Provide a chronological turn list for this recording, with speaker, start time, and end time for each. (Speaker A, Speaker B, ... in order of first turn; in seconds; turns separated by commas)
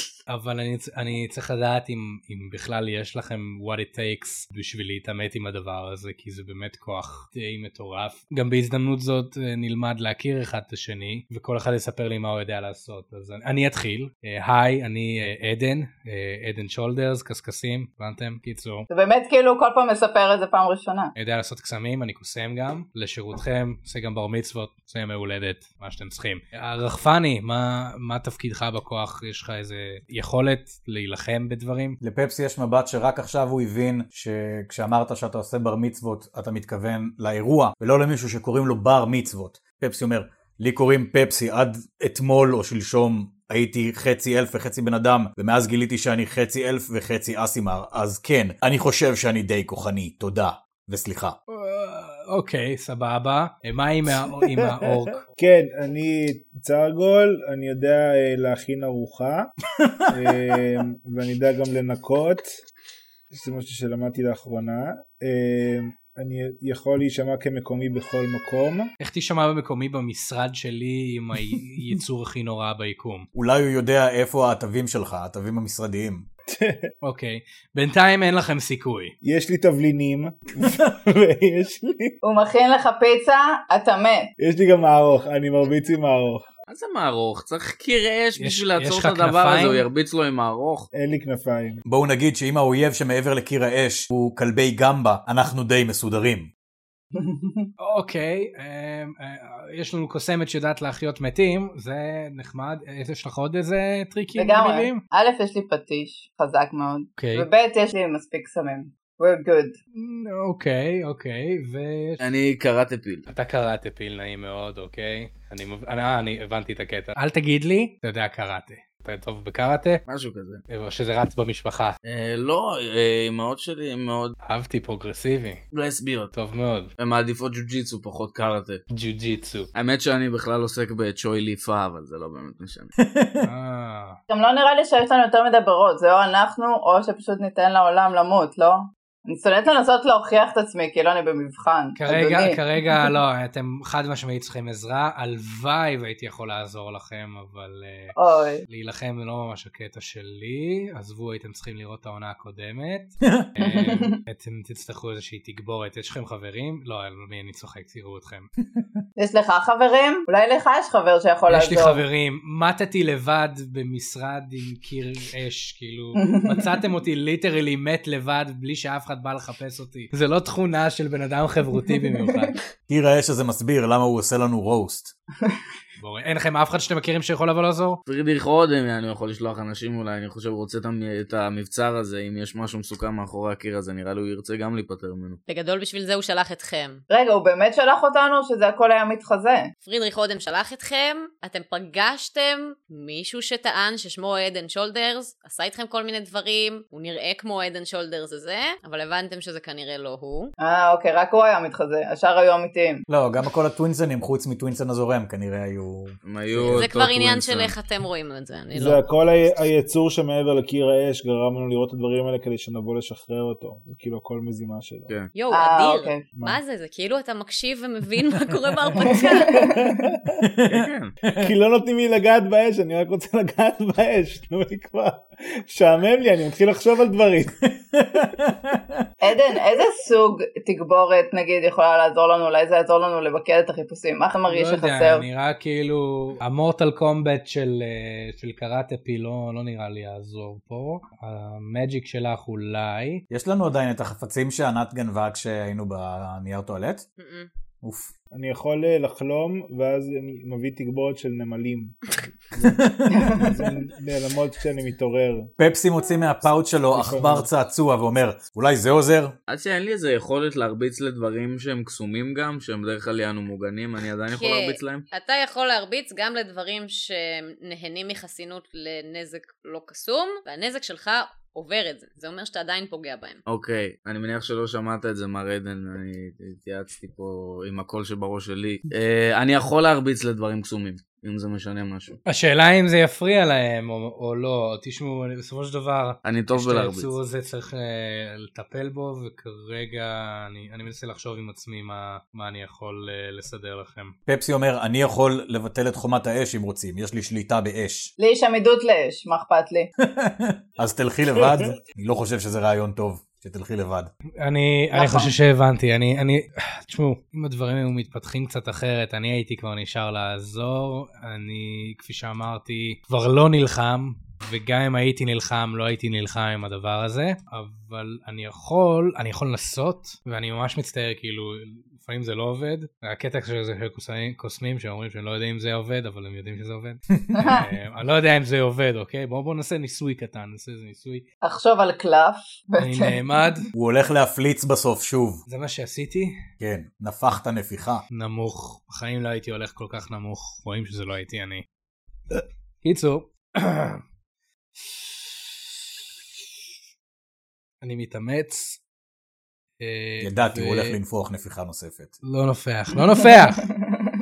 Speaker A: 0.3-18.9, Speaker B: 18.9-21.1, Speaker A: 21.1-32.0, Speaker C: 32.0-51.4, Speaker A: 51.5-55.2, Speaker D: 55.4-59.5, Speaker C: 59.8-60.1, Speaker D: 60.1-62.5, Speaker D: 63.3-68.9, Speaker A: 69.0-73.3, Speaker C: 73.3-76.3, Speaker D: 76.5-76.9, Speaker A: 77.0-79.1, Speaker D: 79.2-82.2, Speaker B: 82.2-84.3, Speaker D: 84.4-86.5, Speaker E: 86.7-90.9, Speaker A: 88.4-89.8, Speaker D: 90.9-91.8, Speaker C: 91.8-96.5, Speaker B: 97.1-97.7, Speaker A: 97.8-105.0, Speaker B: 104.4-109.8, Speaker A: 107.2-107.5, Speaker A: 109.9-112.2, Speaker E: 112.2-113.3, Speaker A: 113.3-120.0, Speaker E: 120.1-120.6, Speaker A: 120.7-122.0, Speaker E: 122.0-124.3, Speaker A: 124.4-125.6, Speaker E: 125.7-126.3, Speaker A: 126.3-126.9, Speaker E: 127.0-128.8, Speaker A: 128.9-129.7, Speaker E: 129.7-132.9, Speaker C: 133.0-133.5, Speaker A: 133.4-134.2, Speaker B: 134.3-142.6, Speaker A: 141.9-148.1, Speaker B: 148.2-148.6, Speaker A: 148.7-158.5, Speaker C: 153.2-153.5, Speaker B: 153.6-154.2, Speaker B: 159.2-162.0, Speaker A: 161.5-172.6, Speaker B: 166.2-166.7, Speaker C: 172.9-175.1, Speaker A: 176.0-178.0, Speaker E: 178.1-185.4, Speaker F: 185.5-187.0, Speaker B: 187.1-189.7, Speaker F: 189.8-200.5, Speaker B: 200.6-203.0, Speaker C: 203.1-207.7, Speaker E: 206.2-207.0, Speaker F: 206.7-209.6, Speaker D: 208.7-215.1, Speaker F: 215.3-219.7, Speaker B: 215.5-216.2, Speaker D: 216.3-216.6, Speaker B: 219.0-220.0, Speaker D: 219.4-220.4, Speaker C: 220.4-221.5, Speaker E: 220.7-221.1, Speaker D: 221.4-227.6, Speaker C: 227.9-229.0, Speaker B: 229.2-235.2, Speaker A: 234.5-243.2, Speaker C: 243.3-247.0, Speaker F: 247.2-247.5, Speaker C: 247.8-248.1, Speaker D: 248.3-252.0, Speaker D: 252.5-255.5, Speaker C: 252.6-253.5, Speaker B: 253.1-253.5, Speaker C: 255.6-259.3, Speaker D: 256.9-257.5, Speaker E: 259.5-265.1, Speaker F: 264.3-273.4, Speaker E: 273.5-282.2, Speaker A: 282.2-294.1, Speaker E: 286.2-287.1, Speaker C: 294.3-298.1, Speaker B: 298.2-299.9, Speaker C: 300.0-304.1, Speaker A: 304.4-331.2, Speaker B: 304.9-305.3, Speaker C: 327.1-327.4, Speaker B: 327.3-327.7, Speaker B: 331.4-333.2, Speaker A: 332.8-333.7, Speaker C: 333.7-335.4, Speaker A: 335.5-336.3, Speaker C: 336.6-338.0, Speaker A: 338.1-341.6, Speaker A: 342.3-344.0, Speaker A: 344.8-345.6, Speaker A: 347.8-348.8, Speaker A: 349.8-351.0, Speaker C: 350.2-352.1, Speaker A: 352.2-353.7, Speaker B: 353.6-354.1